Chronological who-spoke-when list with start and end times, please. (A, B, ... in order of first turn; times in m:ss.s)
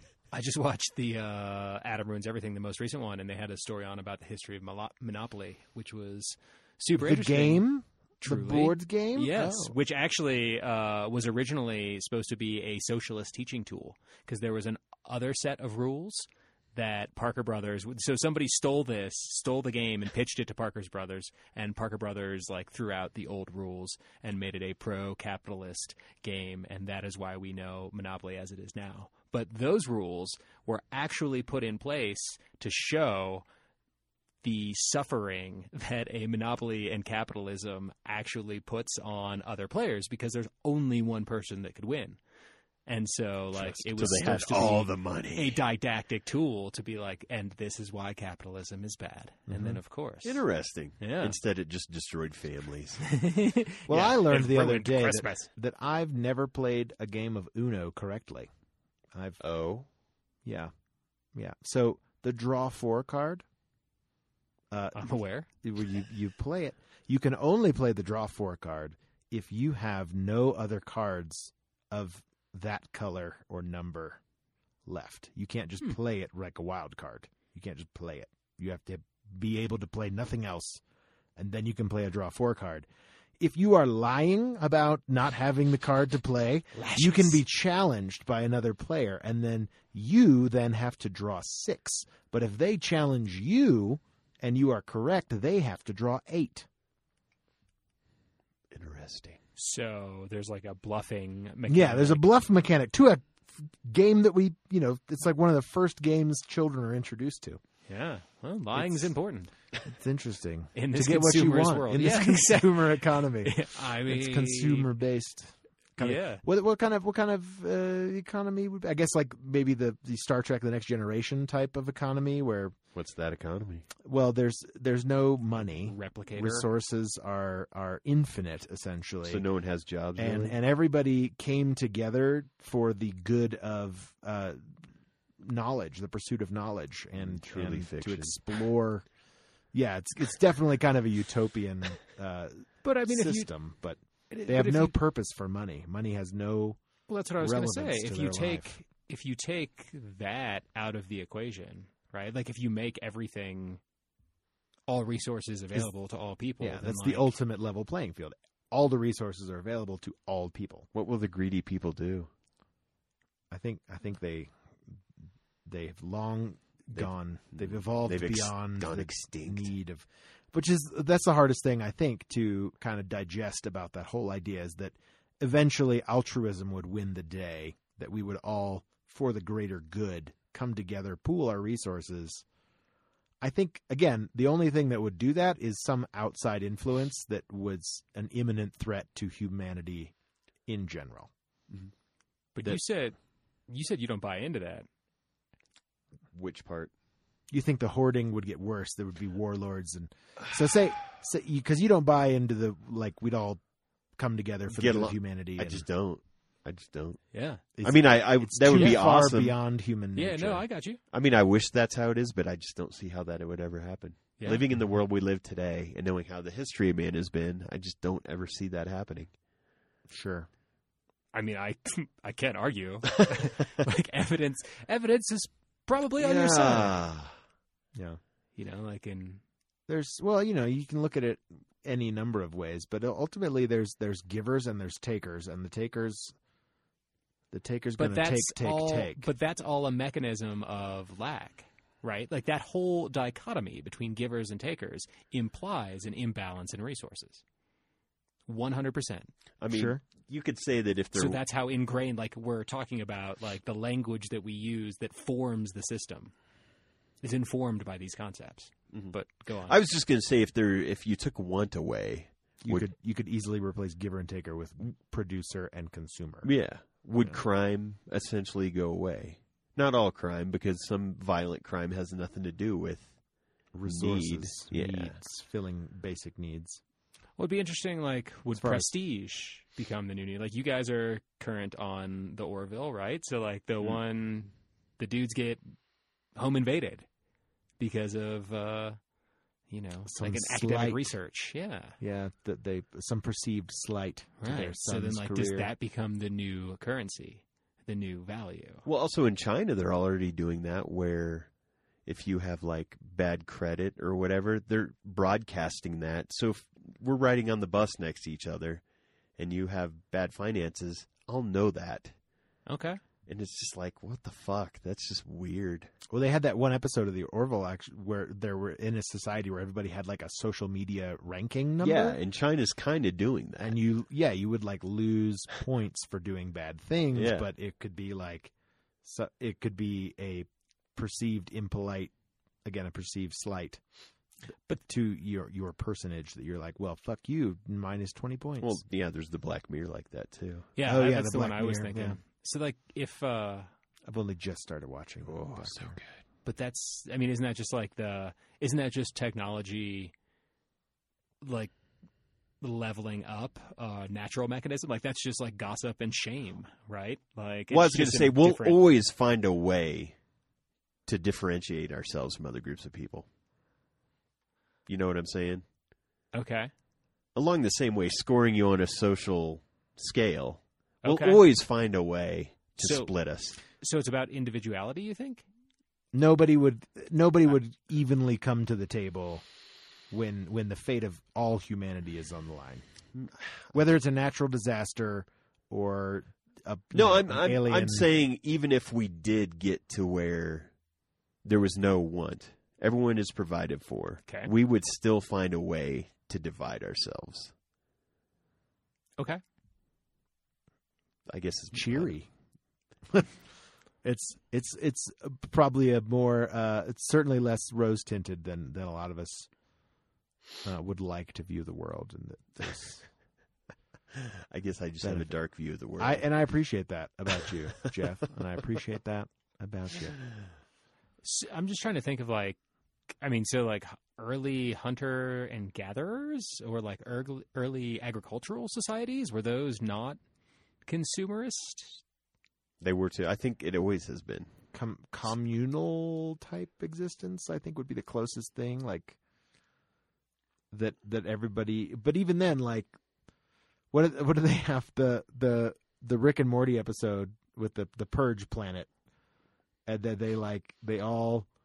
0:00.3-0:07.7 A
0:07.0-0:09.8 B
0:08.2-0:33.4 A
0:34.4-0:42.2 A
0:42.9-0:50.4 A
0:43.6-0:45.6 C
0:49.5-0:49.8 B
0:50.2-0:53.1 C
0:51.0-0:51.4 A
0:53.1-0:55.5 A
0:53.9-0:58.5 B
0:59.1-0:59.4 B
0:59.4-0:59.9 C
1:00.4-1:00.7 B
1:01.4-1:03.4 B
1:04.7-1:05.0 B
1:05.0-1:05.5 A
1:05.6-1:14.2 B
1:14.9-1:20.8 B
1:21.4-1:22.9 B
1:23.4-1:36.7 B
1:26.8-1:27.4 A
1:38.7-1:39.4 C
1:39.6-1:42.2 A
1:41.7-1:47.6 B
1:47.9-1:49.5 A
1:48.8-1:49.1 B
1:49.8-2:02.8 B
1:50.8-1:54.9 A
1:56.0-1:56.4 A
2:03.0-2:03.9 C
2:04.0-2:09.4 B
2:05.8-2:06.7 A
2:09.2-2:10.6 C
2:10.2-2:14.7 B
2:15.4-2:19.1 B
2:17.2-2:18.6 C
2:19.7-2:26.8 B
2:22.8-2:23.5 A
2:24.3-2:25.0 A
2:27.1-2:33.8 A
2:27.4-2:28.7 B
2:34.9-2:37.3 A
2:36.6-2:40.9 B
2:40.9-2:42.3 C
2:43.5-2:44.5 B
2:45.7-3:02.4 B
2:47.0-2:49.7 C
3:03.4-3:10.1 B
3:10.7-3:11.3 B
3:12.6-3:13.2 A
3:13.7-3:14.9 A
3:16.3-3:16.9 C
3:17.5-3:23.6 B
3:24.2-3:25.8 B
3:24.7-3:29.6 C
3:27.3-3:27.6 A
3:27.8-3:30.6 B
3:30.2-3:31.0 A
3:31.1-3:39.3 C
3:34.4-3:34.7 A
3:40.1-3:40.5 B
3:41.3-3:46.9 A
3:46.2-3:47.3 C
3:46.3-3:46.9 B
3:48.0-3:48.2 B
3:48.6-3:49.4 A
3:49.9-3:56.3 B
3:57.5-3:59.3 B
3:58.0-4:07.4 A
4:08.5-4:09.3 A
4:09.6-4:11.4 C
4:09.7-4:10.0 B
4:11.1-4:16.3 A
4:17.2-4:19.8 A
4:18.9-4:22.9 C
4:22.6-4:26.5 B
4:26.4-4:33.2 C
4:27.2-4:27.4 B
4:33.7-4:36.8 B
4:33.8-4:35.2 C
4:37.4-4:45.7 A
4:38.5-4:38.9 B
4:46.4-4:47.1 A
4:47.8-4:49.0 A
4:49.7-4:52.0 A
4:50.1-4:51.1 B
4:52.0-4:55.7 B
4:54.4-4:58.8 A
4:58.9-5:01.5 C
5:02.0-5:08.8 C
5:09.4-5:12.2 C
5:12.7-5:13.0 A
5:13.3-5:15.9 C
5:16.1-5:22.2 B
5:21.8-5:23.8 C
5:23.6-5:28.5 B
5:27.1-5:27.5 C
5:29.0-5:32.1 B
5:32.6-5:33.8 B
5:34.8-5:38.8 B
5:38.6-5:40.7 C
5:40.8-5:43.7 A
5:40.8-5:42.2 B
5:44.1-5:46.0 B
5:45.2-5:46.1 C
5:46.4-5:50.1 A
5:51.4-5:51.7 A
5:52.6-5:58.8 A
5:57.7-6:00.2 C
6:01.1-6:03.3 C
6:04.9-6:05.7 C
6:06.3-6:06.7 A
6:07.4-6:13.6 C
6:11.0-6:11.5 A
6:12.8-6:13.1 A
6:13.7-6:15.5 A
6:16.1-6:19.4 B
6:20.1-6:22.8 B
6:23.2-6:23.5 C
6:23.7-6:28.1 B
6:26.9-6:30.7 C
6:31.4-6:37.5 C
6:41.3-6:42.1 C
6:41.7-6:42.3 B
6:44.0-6:49.5 B
6:50.6-6:53.1 B
6:54.2-6:56.3 C
6:55.0-6:55.3 B
6:56.0-7:00.2 B
7:01.2-7:02.6 A
7:03.2-7:10.2 A
7:10.9-7:12.0 A
7:12.8-7:14.5 C
7:14.7-7:19.2 B
7:20.7-7:22.9 B
7:23.9-7:28.9 B
7:29.9-7:31.5 B